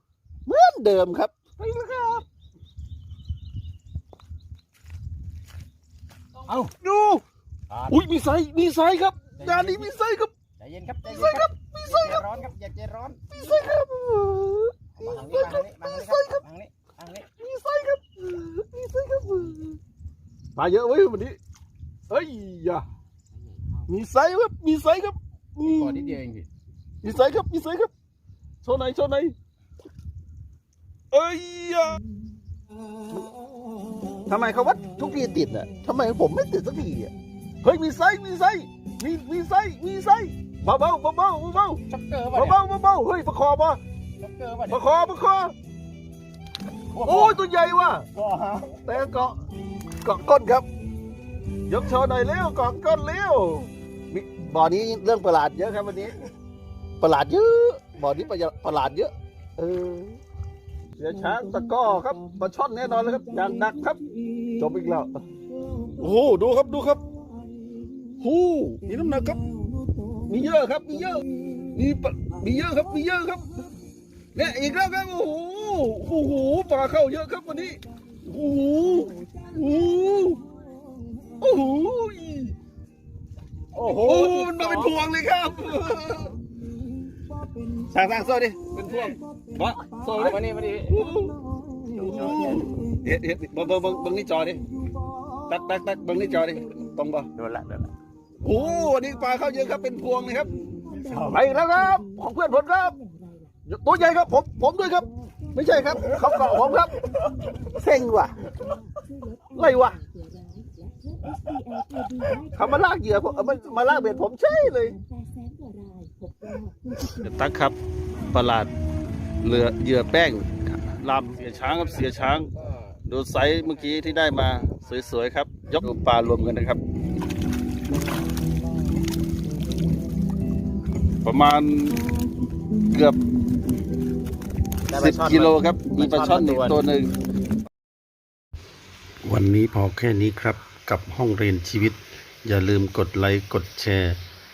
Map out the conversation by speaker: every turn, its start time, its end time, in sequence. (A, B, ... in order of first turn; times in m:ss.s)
0:00.4-0:02.2 A
0:06.5-0:06.7 B
0:06.8-0:07.2 A
0:07.7-0:08.0 B
0:07.9-0:10.3 A
0:09.4-0:09.9 B
0:10.6-0:13.2 B
0:11.1-0:12.2 A
0:13.3-0:16.4 A
0:15.0-0:17.3 B
0:17.4-0:19.8 A
0:20.6-0:21.4 A
0:22.1-0:22.8 A
0:23.6-0:23.8 B
0:23.9-0:26.2 A
0:25.6-0:26.5 B
0:27.0-0:27.9 A
0:28.6-0:29.3 A
0:31.1-0:32.0 A
0:34.2-0:37.1 A
0:37.6-0:43.8 A
0:41.9-0:42.6 B
0:44.2-0:44.8 B
0:44.7-0:45.5 A
0:46.9-0:47.4 B
0:47.0-0:48.1 A
0:48.1-0:49.0 B
0:48.8-0:49.4 A
0:50.0-0:50.6 A
0:51.7-0:56.2 A
0:57.0-1:00.2 A
1:01.0-1:04.0 A
1:04.6-1:05.1 A
1:06.0-1:07.0 A
1:08.2-1:09.4 A
1:10.3-1:13.4 A
1:14.3-1:20.4 A
1:21.4-1:22.5 A
1:23.7-1:24.9 B
1:23.9-1:26.4 A
1:27.8-1:31.4 A
1:30.1-1:31.1 B
1:31.8-1:32.7 B
1:31.9-1:34.6 A
1:35.5-1:37.3 A
1:37.4-1:37.9 B
1:38.4-1:43.0 A
1:43.6-1:47.0 A
1:47.6-1:48.4 A
1:49.5-1:50.0 A
1:52.5-1:55.0 A
1:57.0-1:57.8 A
1:58.3-1:58.7 A
1:59.4-2:02.5 A
2:01.4-2:05.2 B
2:03.0-2:06.8 A
2:11.2-2:12.0 A
2:12.9-2:13.2 A
2:14.9-2:16.8 B
2:14.9-2:17.1 A
2:19.2-2:24.2 A